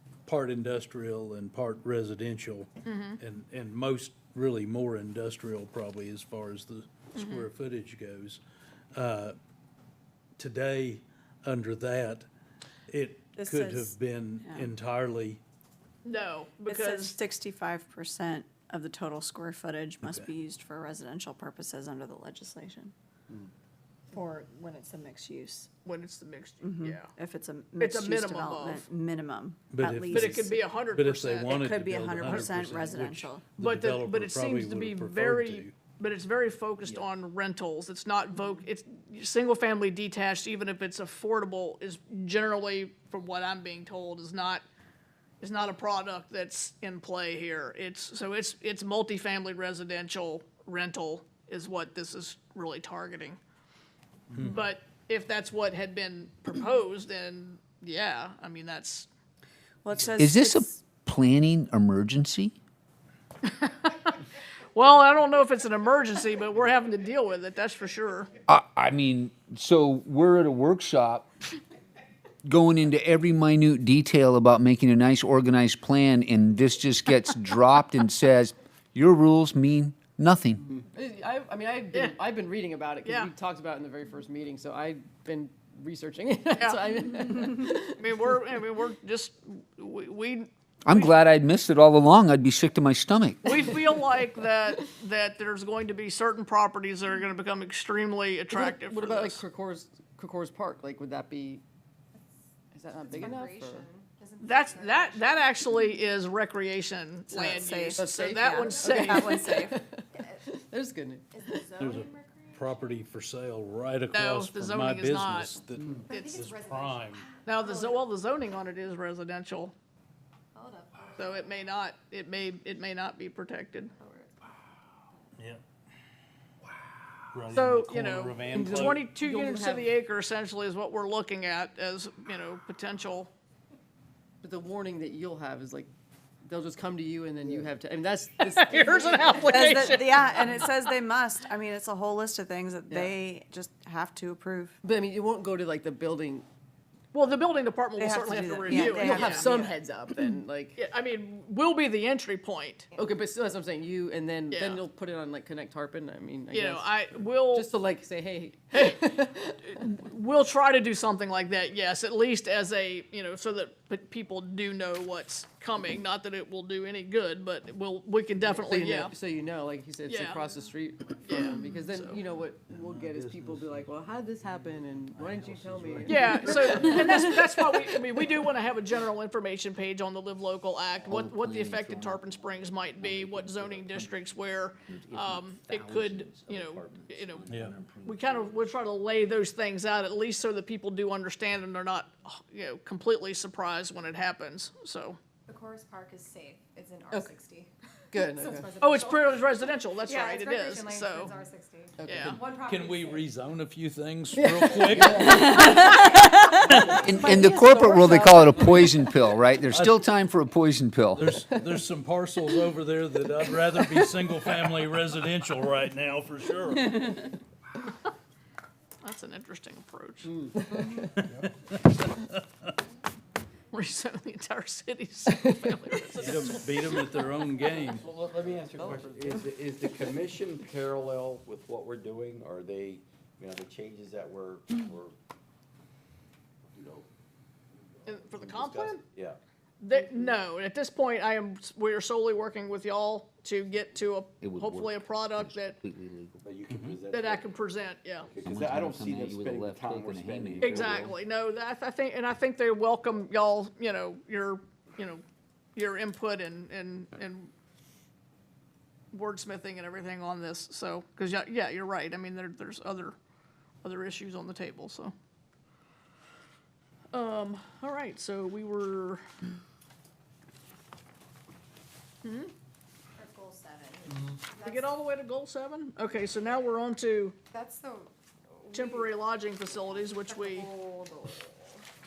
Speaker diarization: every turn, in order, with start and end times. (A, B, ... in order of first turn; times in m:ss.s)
0:00.3-0:08.4 A
0:02.8-0:03.2 B
0:07.2-0:07.5 B
0:08.9-0:09.4 A
0:10.4-0:12.3 A
0:12.9-0:15.4 A
0:13.4-0:14.7 C
0:16.0-0:17.2 B
0:16.7-0:22.9 C
0:24.1-0:25.7 C
0:25.8-0:27.1 B
0:26.6-0:30.8 C
0:27.8-0:28.9 B
0:29.7-0:35.8 A
0:30.1-0:31.5 B
0:31.4-0:33.5 C
0:33.6-0:44.6 B
0:45.4-0:53.4 B
0:54.3-0:54.6 A
0:54.4-0:59.1 B
0:59.8-1:00.8 C
1:00.2-1:02.5 D
1:03.4-1:04.0 B
1:04.7-1:08.3 B
1:08.5-1:11.3 D
1:12.4-1:20.6 D
1:20.6-1:28.0 E
1:21.9-1:22.2 B
1:23.0-1:23.3 B
1:26.6-1:27.1 B
1:27.9-1:31.1 B
1:30.9-1:33.5 D
1:33.4-1:39.4 B
1:38.5-1:41.6 E
1:42.7-1:43.9 E
1:43.0-1:45.6 F
1:44.4-1:49.4 B
1:47.3-1:49.9 C
1:47.3-1:51.9 E
1:50.2-1:50.5 F
1:51.3-1:53.0 F
1:51.8-1:57.3 A
1:54.1-1:56.5 B
1:56.1-1:58.1 F
1:57.4-1:59.7 B
2:00.6-2:01.6 F
2:01.2-2:03.9 B
2:03.9-2:04.5 F
2:05.4-2:05.6 A
2:07.3-2:09.0 A
2:07.5-2:13.3 B
2:08.5-2:09.9 E
2:14.4-2:15.9 E
2:16.4-2:20.7 E
2:18.4-2:20.0 B
2:19.4-2:24.8 C
2:22.9-2:23.1 E
2:24.8-2:26.4 E
2:27.1-2:29.5 B
2:28.0-2:29.8 C
2:28.6-2:30.8 E
2:30.8-2:32.9 B
2:32.9-2:39.8 E
2:34.5-2:34.8 B
2:36.5-2:37.7 B
2:38.7-2:39.1 B
2:39.7-2:49.1 B
2:48.4-2:58.3 E
2:50.0-2:50.5 B
2:51.2-2:52.2 B
2:52.8-2:53.8 A
2:55.3-2:56.3 A
2:56.0-3:07.5 B
3:01.0-3:02.3 D
3:03.0-3:04.2 D
3:04.9-3:07.9 D
3:07.5-3:07.8 A
3:07.6-3:08.3 G
3:08.0-3:15.2 B
3:15.5-3:23.2 F
3:18.1-3:18.8 E
3:18.8-3:21.4 B
3:22.0-3:22.4 E
3:22.0-3:22.4 B
3:22.4-3:25.9 A
3:24.3-3:26.0 E
3:25.4-3:28.7 C
3:25.8-3:26.2 D
3:26.7-3:27.0 A
3:26.7-3:31.3 D
3:27.2-3:28.5 E
3:29.7-3:30.0 A
3:31.1-3:37.3 A
3:31.5-3:31.7 E
3:39.0-3:40.4 B
3:40.3-3:41.0 E
3:43.7-3:47.2 B
3:45.3-3:46.2 E
3:46.2-3:48.0 A
3:47.9-3:55.1 G
3:48.3-3:49.5 E
3:56.7-3:57.0 G
3:58.0-3:59.0 B
3:58.1-3:59.4 G
3:59.8-4:05.8 B
4:04.4-4:06.4 D
4:06.4-4:07.5 G
4:06.7-4:07.0 A
4:07.1-4:08.3 B
4:08.2-4:11.1 G
4:08.4-4:11.1 D
4:10.6-4:15.2 B
4:15.8-4:17.5 B
4:19.1-4:23.2 B
4:23.8-4:25.1 B
4:27.1-4:29.2 B
4:32.2-4:32.5 B
4:33.2-4:35.0 F
4:34.6-4:37.3 B
4:37.5-4:39.2 F
4:38.7-4:40.7 B
4:39.7-4:41.8 F